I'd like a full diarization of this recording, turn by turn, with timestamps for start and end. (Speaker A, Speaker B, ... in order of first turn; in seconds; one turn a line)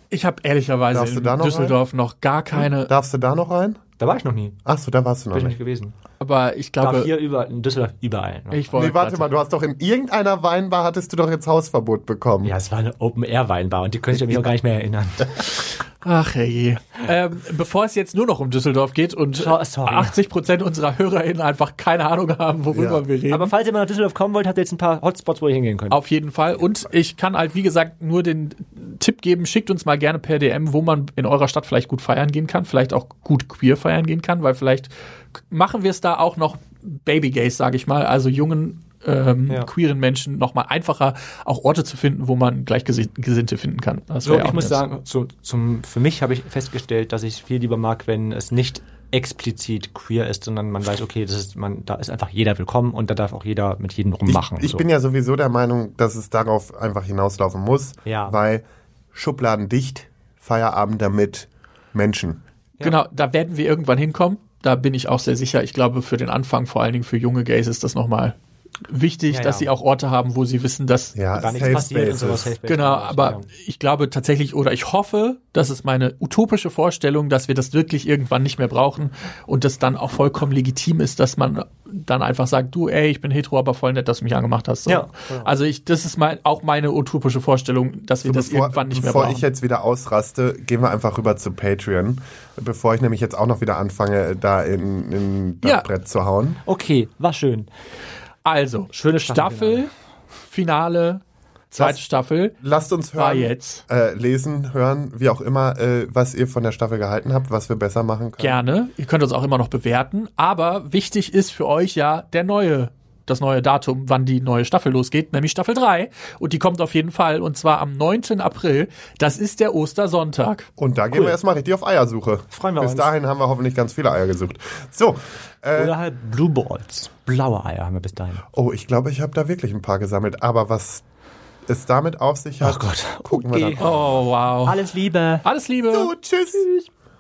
Speaker A: 0.1-2.9
Speaker B: 0.9-1.8
Speaker B: 2.5-3.8
Speaker C: 4.0-4.6
Speaker B: 4.7-5.6
Speaker C: 5.3-5.9
Speaker A: 6.2-7.1
Speaker C: 6.8-8.7
Speaker A: 8.5-9.3
Speaker B: 8.7-12.5
Speaker C: 12.4-15.6
Speaker A: 15.5-23.5
Speaker C: 19.4-20.1
Speaker B: 22.7-23.0
Speaker C: 23.3-26.0
Speaker A: 25.9-44.8
Speaker C: 44.2-54.9
Speaker B: 54.3-62.4
Speaker C: 58.0-58.4
Speaker A: 62.8-68.3
Speaker A: 68.9-71.8
Speaker C: 69.3-69.7
Speaker B: 71.2-72.5
Speaker C: 71.3-73.5
Speaker A: 72.7-89.5
Speaker B: 88.2-96.6
Speaker C: 96.6-97.7
Speaker A: 98.5-99.9
Speaker C: 99.2-99.9
Speaker A: 100.5-102.6
Speaker B: 102.6-108.6
Speaker A: 103.2-103.8
Speaker A: 108.4-120.7
Speaker B: 120.8-126.0
Speaker C: 122.5-123.1
Speaker C: 125.8-128.4
Speaker B: 128.6-131.0
Speaker B: 131.7-133.9
Speaker C: 132.6-134.0
Speaker A: 133.8-134.8
Speaker C: 134.6-135.4
Speaker A: 135.4-136.1
Speaker B: 135.9-136.7
Speaker C: 136.6-136.9